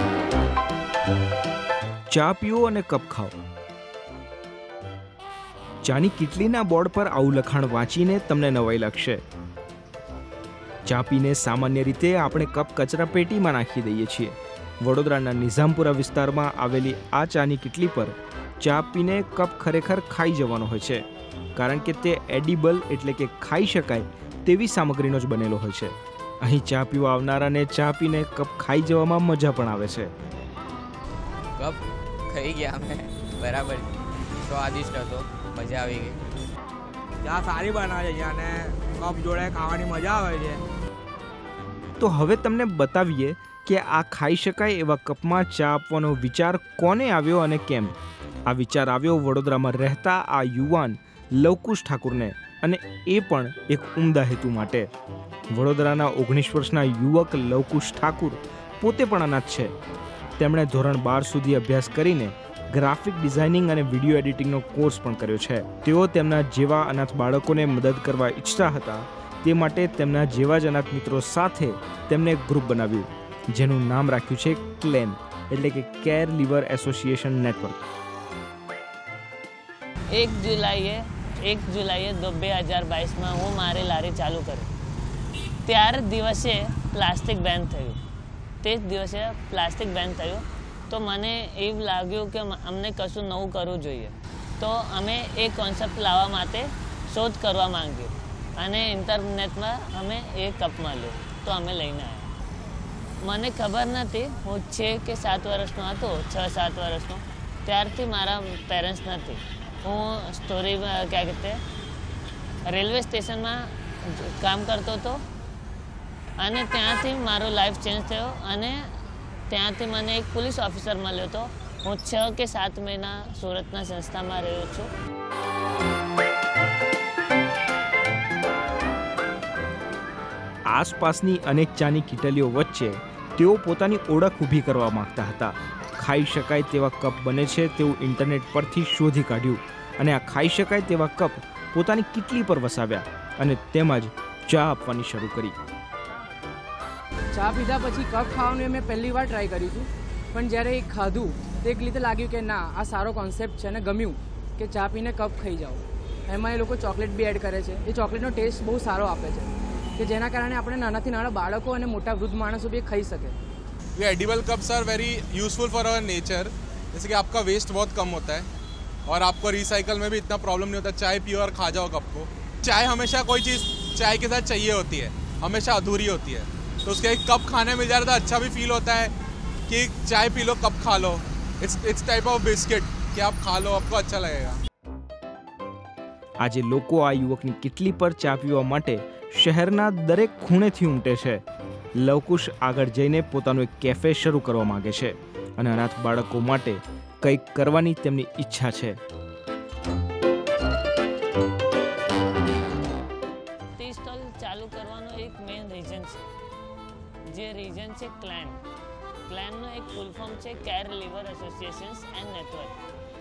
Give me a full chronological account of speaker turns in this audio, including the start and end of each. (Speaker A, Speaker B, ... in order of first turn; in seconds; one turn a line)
Speaker A: 2.1-3.3
Speaker A: 5.8-9.2
Speaker A: 10.8-30.1
Speaker B: 31.6-33.9
Speaker B: 34.4-36.2
Speaker C: 37.2-40.6
Speaker A: 42.0-47.9
Speaker A: 48.5-54.9
Speaker A: 55.5-59.7
Speaker A: 60.4-77.8
Speaker D: 80.1-84.7
Speaker D: 85.6-88.0
Speaker D: 88.6-102.3
Speaker D: 103.2-111.6
Speaker D: 112.6-115.2
Speaker D: 116.4-118.9
Speaker D: 119.5-124.9
Speaker A: 130.7-145.6
Speaker E: 147.3-163.4
Speaker F: 163.9-168.5
Speaker F: 169.1-179.1
Speaker F: 179.7-184.6
Speaker A: 186.4-191.4
Speaker A: 191.9-199.0
Speaker D: 203.8-206.3
Speaker D: 207.3-208.6
Speaker D: 209.3-212.8